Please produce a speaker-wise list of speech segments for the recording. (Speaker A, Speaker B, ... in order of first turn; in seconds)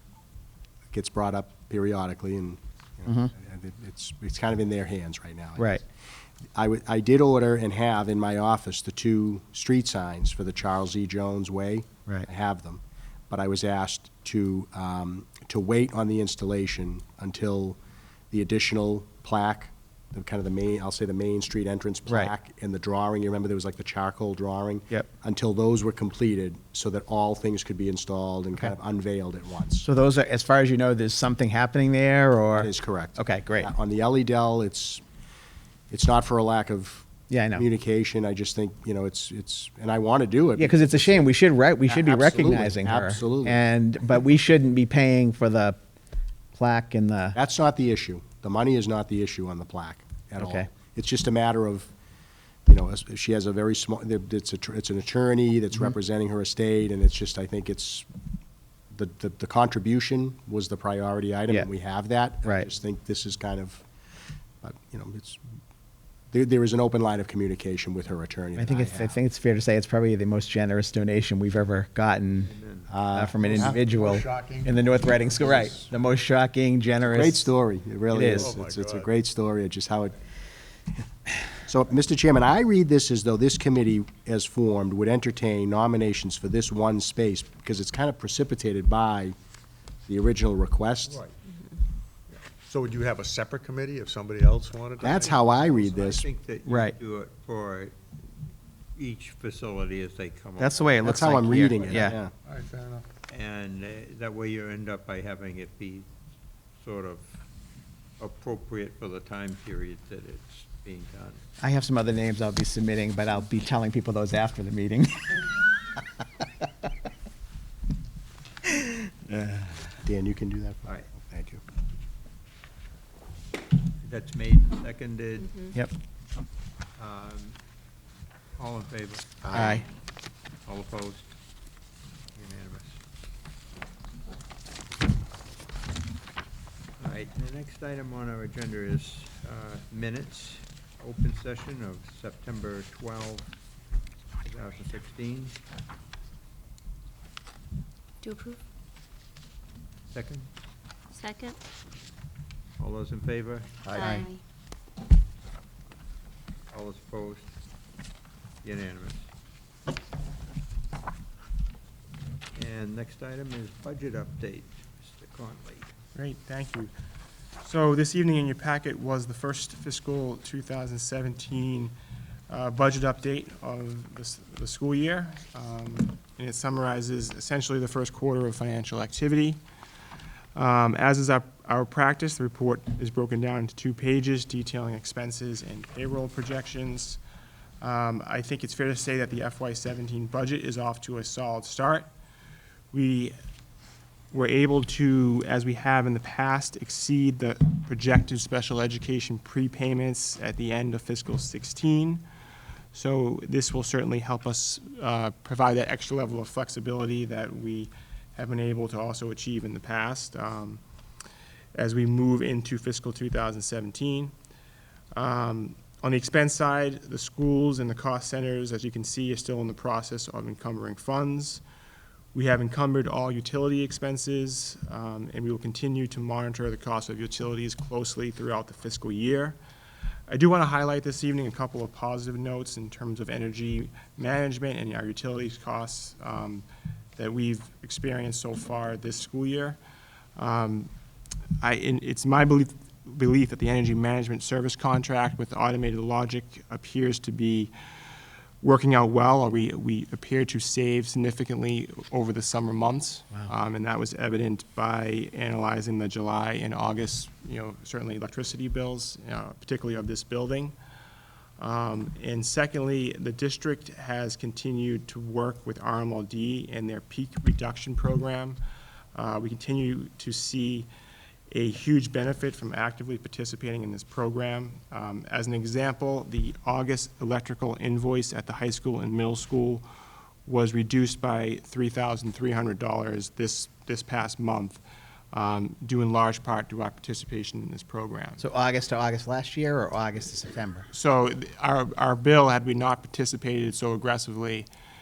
Speaker A: 0.9-5.8, 6.5-17.8, 18.3-29.9, 32.5-35.0, 35.9-41.3, 41.9-43.6, 47.3-51.9, 52.6-58.1, 58.9-63.9, 64.6-65.4, 66.3-69.2, 72.9-73.8, 77.0-80.2, 81.6-89.3, 90.1-91.2, 95.0-96.3, 101.0-102.3, 120.0-121.6, 129.4-129.8
Speaker B: 3.0-3.3, 5.6-5.8, 22.1-22.3, 29.8-33.7, 37.3-37.6, 40.6-45.8, 46.5-47.4, 50.4-50.7, 68.5-72.5, 73.1-77.5, 78.1-78.5, 96.7-97.0, 100.6-102.2, 111.6-115.5, 118.8-119.8, 129.5-129.8, 153.9-154.2, 288.4-290.9
Speaker C: 72.4-72.9, 95.0-98.0, 98.9-101.1, 103.3-106.1, 106.8-107.4, 108.2-111.4, 124.0-125.6, 127.0-127.6, 128.6-129.5, 130.6-131.3, 132.3-133.0, 137.0-143.5, 144.4-145.6, 150.1-150.5, 152.8-154.0, 156.7-157.5, 158.6-159.3, 162.5-165.9
Speaker D: 73.5-75.8, 78.2-79.1, 92.6-95.4, 101.9-103.0
Speaker E: 91.4-91.8, 125.4-125.8, 129.6-129.9, 148.2-148.6, 151.1-151.6, 153.9-154.4
Speaker F: 166.1-166.9, 167.6-171.9, 172.5-179.6, 180.5-187.2, 187.8-192.1, 192.9-193.3, 194.3-202.2, 202.9-210.8, 211.7-214.3, 215.1-221.6, 222.3-229.6, 230.3-236.6, 237.2-239.8, 240.3-240.9, 241.6-247.7, 248.6-260.7, 261.6-268.6, 269.1-270.9, 271.5-279.8, 280.4-284.8, 285.3-288.4, 290.9-294.7